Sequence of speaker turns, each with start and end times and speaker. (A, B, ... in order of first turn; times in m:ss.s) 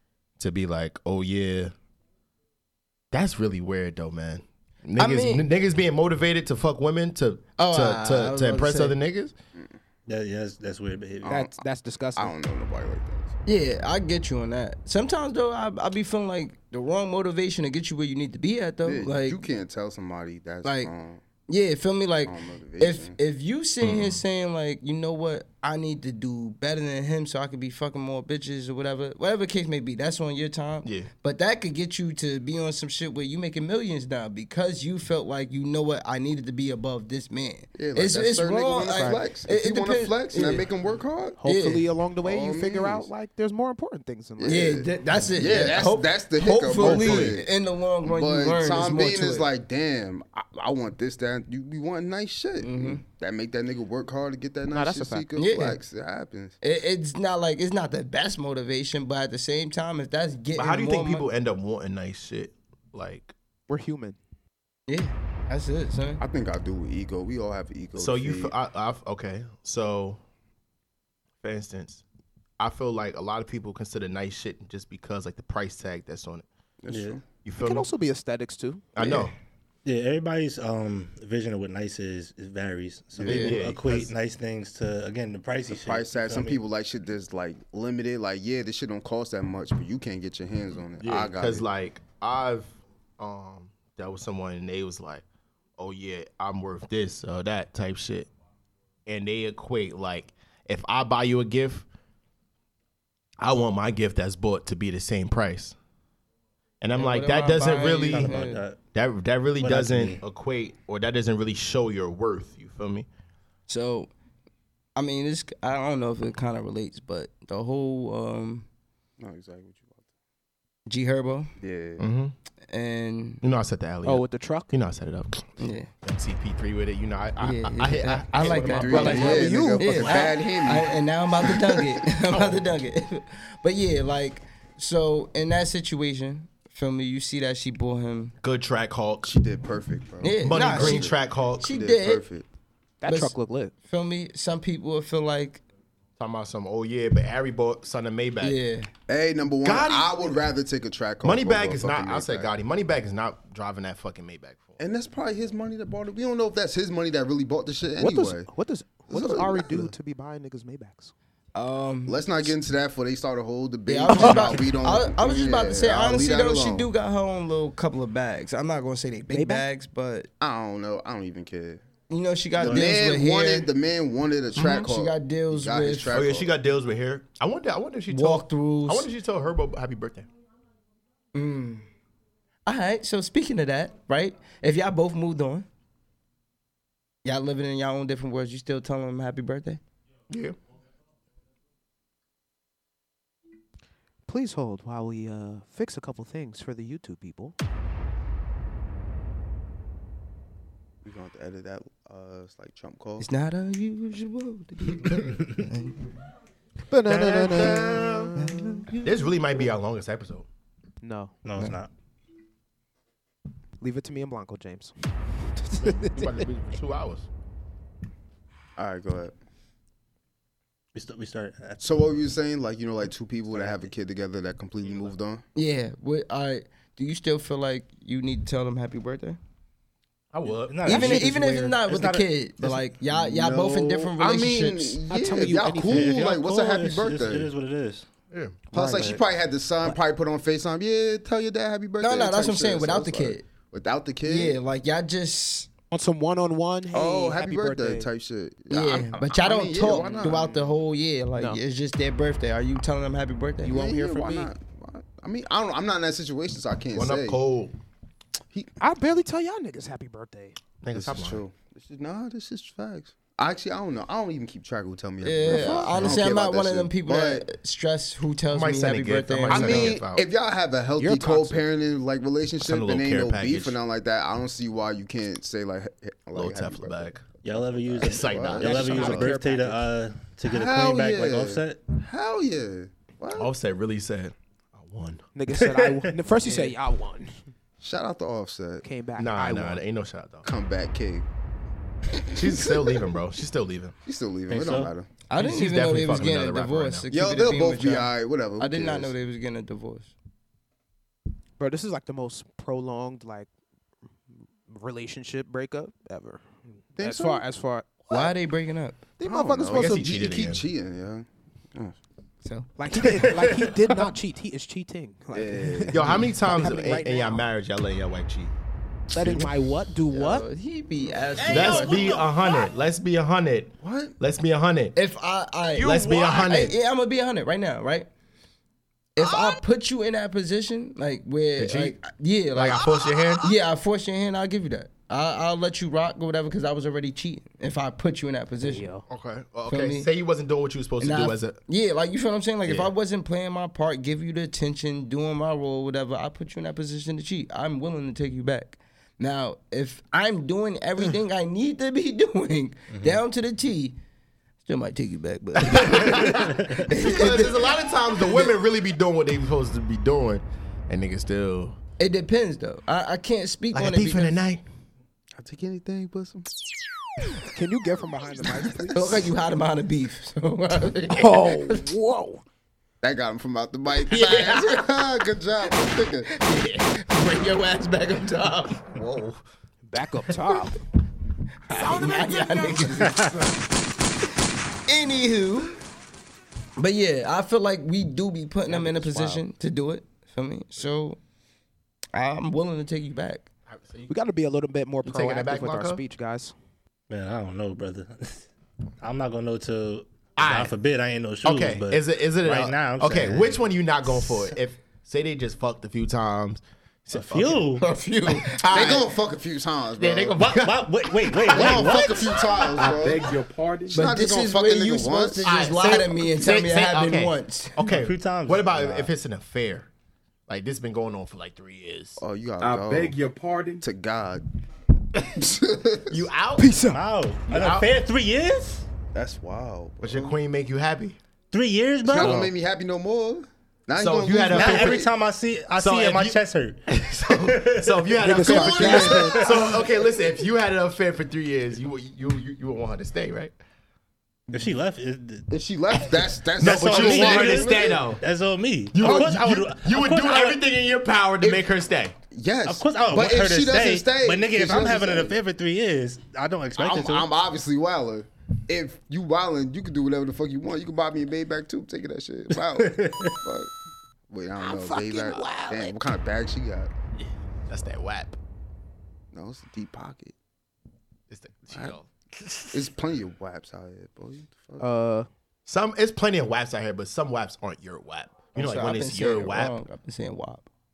0:00.4-0:01.7 A
0:03.1-0:09.3 A
0:05.0-0:05.5 B
0:07.6-0:09.0 B
0:10.1-0:11.4 C
0:11.2-0:11.6 D
0:11.3-0:12.3 E
0:12.2-0:13.4 D
0:13.5-0:19.4 B
0:18.8-0:21.2 D
0:20.6-0:20.9 B
0:21.5-0:40.7 B
0:22.3-0:23.2 D
0:23.8-0:24.2 A
0:30.8-0:31.1 A
0:37.8-0:41.4 D
0:41.4-0:44.8 E
0:41.4-0:41.9 B
0:42.2-0:43.1 D
0:44.4-0:47.5 D
0:44.4-0:49.5 B
0:46.8-0:47.2 A
0:48.0-0:56.6 D
0:52.6-0:53.0 B
0:54.7-0:55.3 E
0:55.4-0:55.8 B
0:56.6-1:01.3 B
1:00.6-1:03.3 A
1:03.7-1:04.2 E
1:04.9-1:06.2 B
1:06.2-1:08.5 D
1:08.0-1:10.2 A
1:11.4-1:12.0 A
1:12.6-1:16.5 A
1:16.8-1:17.2 D
1:16.9-1:17.2 C
1:17.4-1:17.9 A
1:17.6-1:18.9 E
1:19.0-1:19.4 A
1:19.8-1:26.6 C
1:23.2-1:24.1 A
1:25.7-1:31.7 D
1:31.0-1:35.2 A
1:35.8-1:38.3 A
1:39.1-1:41.9 A
1:43.4-1:45.8 A
1:46.8-1:48.4 A
1:46.9-1:48.6 B
1:48.1-1:48.8 C
1:48.9-1:53.1 A
1:49.6-1:50.2 C
1:53.7-1:54.1 B
1:55.0-1:58.7 B
1:59.2-2:00.0 D
2:00.9-2:01.5 B
2:01.6-2:02.1 D
2:02.0-2:02.3 A
2:02.7-2:03.4 B
2:03.4-2:09.6 A
2:04.0-2:04.7 E
2:05.6-2:05.9 B
2:07.4-2:18.3 B
2:08.4-2:12.1 D
2:08.9-2:10.2 E
2:18.4-2:19.3 A
2:19.2-2:22.5 D
2:20.2-2:22.2 B
2:20.4-2:21.8 A
2:23.0-2:23.7 E
2:23.1-2:23.4 B
2:23.9-2:25.6 B
2:26.2-2:28.6 A
2:28.4-2:28.9 B
2:29.1-2:32.5 D
2:29.6-2:30.4 A
2:31.2-2:34.8 A
2:34.8-2:38.5 D
2:38.0-2:41.1 E
2:39.1-2:39.9 D
2:41.6-2:42.5 B
2:42.1-2:46.9 D
2:43.9-2:50.3 B
2:44.2-2:44.6 E
2:49.3-2:49.7 E
2:50.4-2:51.8 D
2:52.1-2:53.7 B
2:52.6-2:56.5 D
2:54.6-2:54.9 A
2:54.6-2:56.2 B
2:56.1-3:00.3 A
2:58.1-2:59.1 B
3:01.3-3:01.9 B
3:02.7-3:05.7 B
3:07.2-3:09.8 B
3:10.3-3:10.6 A
3:14.3-3:17.6 E
3:21.0-3:23.3 D
3:23.2-3:26.1 B
3:26.9-3:28.9 E
3:27.1-3:28.4 A
3:28.4-3:29.1 B
3:29.0-3:30.5 A
3:31.0-3:31.4 E
3:31.4-3:31.9 C
3:33.8-3:36.4 E
3:35.8-3:37.3 A
3:38.8-3:39.4 D
3:41.0-3:41.8 C
3:41.8-3:45.4 D
3:43.5-3:43.9 C
3:45.6-3:49.4 B
3:50.3-3:51.2 A
3:50.7-3:52.3 C
3:50.9-3:55.0 B
3:51.1-3:51.4 E
3:52.6-3:57.5 D
3:55.1-3:56.2 E
3:55.9-3:58.1 C
3:58.3-3:58.6 A
3:58.7-3:59.2 E
3:58.7-4:04.6 D
4:02.0-4:03.4 B
4:04.2-4:05.7 B
4:05.9-4:08.1 E
4:06.9-4:10.7 D
4:08.7-4:14.5 B
4:09.9-4:10.3 A
4:13.6-4:17.4 D
4:16.9-4:17.8 A
4:18.8-4:20.6 E
4:20.8-4:21.4 A
4:20.9-4:27.5 D
4:25.2-4:30.0 B
4:25.5-4:26.2 A
4:28.5-4:30.3 A
4:29.5-4:39.4 D
4:31.0-4:31.6 E
4:32.6-4:33.8 A
4:36.3-4:37.2 A
4:37.4-4:41.8 C
4:38.0-4:39.3 A
4:38.7-4:39.8 E
4:40.4-4:43.5 D
4:43.4-4:45.2 A
4:45.4-4:47.4 E
4:45.6-4:46.6 C
4:47.8-4:48.8 D
4:48.8-4:49.8 E
4:49.2-4:50.5 A
4:50.4-4:51.3 D
4:52.3-4:53.9 A
4:52.4-4:52.9 D
4:54.1-4:55.1 D
4:54.5-4:54.9 C
4:55.3-5:00.1 B
4:55.4-4:57.1 A
4:57.1-4:59.1 D
5:01.6-5:03.5 E
5:04.7-5:08.2 E
5:07.0-5:07.5 D
5:08.1-5:09.0 B
5:09.2-5:10.1 E
5:09.2-5:12.0 D
5:09.7-5:10.6 A
5:12.8-5:17.4 E
5:13.0-5:13.7 C
5:15.3-5:16.4 D
5:15.9-5:18.5 A
5:19.1-5:20.5 E
5:19.2-5:19.5 C
5:20.1-5:22.2 B
5:21.4-5:22.4 C
5:21.4-5:25.0 A
5:23.8-5:24.1 D
5:25.0-5:28.1 B
5:25.7-5:26.8 A
5:29.2-5:32.9 B
5:31.6-5:32.0 A
5:32.5-5:33.5 A
5:33.4-5:38.9 B
5:38.6-5:39.0 E
5:39.1-5:41.6 A
5:39.7-5:40.1 B
5:41.0-5:54.0 B
5:42.7-5:42.9 A
5:54.6-5:57.7 B
5:55.6-6:01.8 A
6:02.0-6:04.4 B
6:03.7-6:04.6 A
6:05.4-6:06.5 D
6:07.4-6:09.2 E
6:08.9-6:11.8 B
6:11.1-6:12.4 E
6:13.0-6:16.3 D
6:14.0-6:15.1 B
6:16.3-6:18.9 B
6:19.0-6:19.4 A
6:19.8-6:20.8 E
6:21.7-6:23.1 E
6:21.7-6:23.2 B
6:23.0-6:23.4 C
6:24.9-6:25.8 B
6:26.8-6:31.2 B
6:28.7-6:29.4 E
6:32.1-6:33.5 B
6:33.7-6:34.1 A
6:34.1-6:36.5 E
6:35.0-6:36.0 A
6:37.1-6:38.5 C
6:39.0-6:43.7 C
6:40.4-6:40.8 A
6:41.4-6:49.1 A
6:47.1-6:47.8 C
6:47.8-6:49.0 B
6:48.7-6:50.4 D
6:50.0-6:52.4 A
6:50.4-6:52.8 C
6:51.5-6:53.3 D
6:52.8-6:54.0 F
6:53.9-6:55.5 D
6:53.9-6:57.8 B
6:55.4-6:59.9 A
6:57.8-6:58.9 C
6:58.8-6:59.1 D
7:00.5-7:02.2 A
7:02.2-7:03.2 D
7:02.6-7:03.8 F
7:03.8-7:04.5 D
7:05.2-7:05.4 A
7:05.3-7:06.2 D
7:06.1-7:06.8 A
7:06.6-7:07.0 E
7:06.9-7:08.9 C
7:07.5-7:07.9 A
7:09.2-7:10.4 D
7:10.0-7:11.2 A
7:11.5-7:12.5 C
7:12.0-7:15.1 D
7:12.2-7:12.5 A
7:14.0-7:15.1 A
7:14.5-7:18.2 C
7:15.8-7:23.5 A
7:18.2-7:19.5 E
7:18.4-7:19.4 D
7:18.5-7:19.1 B
7:24.5-7:25.5 C
7:25.5-7:28.0 D
7:26.6-7:30.6 C
7:26.6-7:28.2 A
7:28.9-7:32.2 A
7:29.0-7:29.4 D
7:31.4-7:31.7 D
7:32.3-7:35.4 D
7:32.6-7:37.3 C
7:36.8-7:43.7 D
7:42.7-7:43.3 C
7:44.3-7:46.9 D
7:44.6-7:46.0 E
7:47.2-7:48.4 A
7:49.3-7:50.3 D
7:51.3-7:52.9 A
7:52.7-7:54.9 D
7:54.8-7:55.3 E
7:55.7-7:59.8 A
7:58.6-8:00.7 B